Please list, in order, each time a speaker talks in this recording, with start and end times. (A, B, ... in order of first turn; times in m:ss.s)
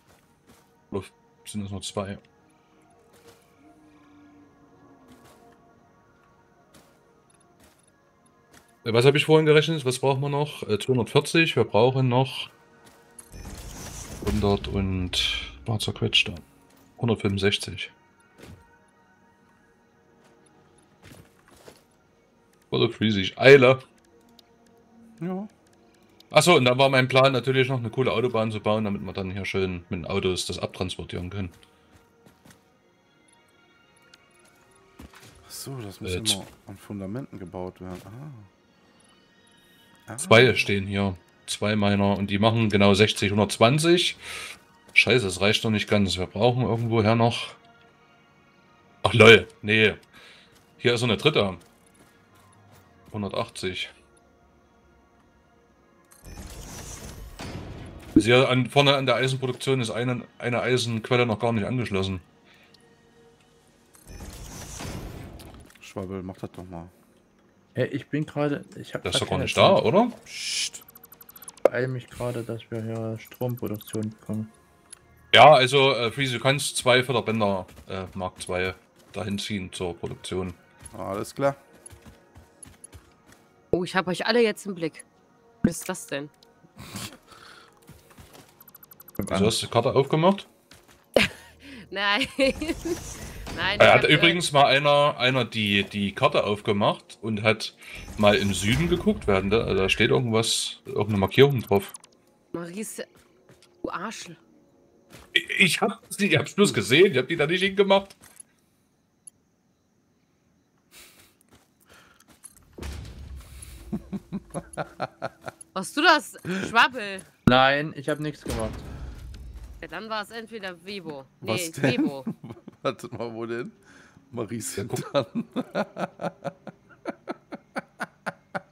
0:00.9-0:02.2 A
0:08.8-0:12.5 A
0:14.2-0:16.4 A
0:17.0-0:17.9 A
0:22.7-0:23.8 A
0:25.2-0:25.5 B
0:26.3-0:31.5 A
0:35.4-0:38.5 B
0:36.0-0:36.4 A
0:40.1-0:40.7 B
0:40.2-0:44.2 A
0:44.9-0:47.6 A
0:49.0-0:50.0 A
0:50.8-0:51.6 A
0:53.1-0:53.9 A
0:58.1-1:02.2 A
1:05.8-1:06.9 B
1:07.8-1:09.8 C
1:09.0-1:10.2 A
1:10.2-1:10.8 B
1:11.6-1:14.5 C
1:15.3-1:20.6 A
1:20.9-1:21.6 B
1:23.7-1:25.1 D
1:25.6-1:26.3 D
1:29.2-1:29.6 C
1:29.3-1:30.5 A
1:31.2-1:34.4 D
1:33.8-1:41.9 A
1:42.5-1:43.1 D
1:43.8-1:44.4 D
1:45.3-1:48.1 A
1:55.8-1:57.3 D
1:57.5-1:58.8 C
1:59.8-2:02.3 D
2:01.4-2:03.8 B
2:04.3-2:06.5 B
2:04.8-2:05.1 A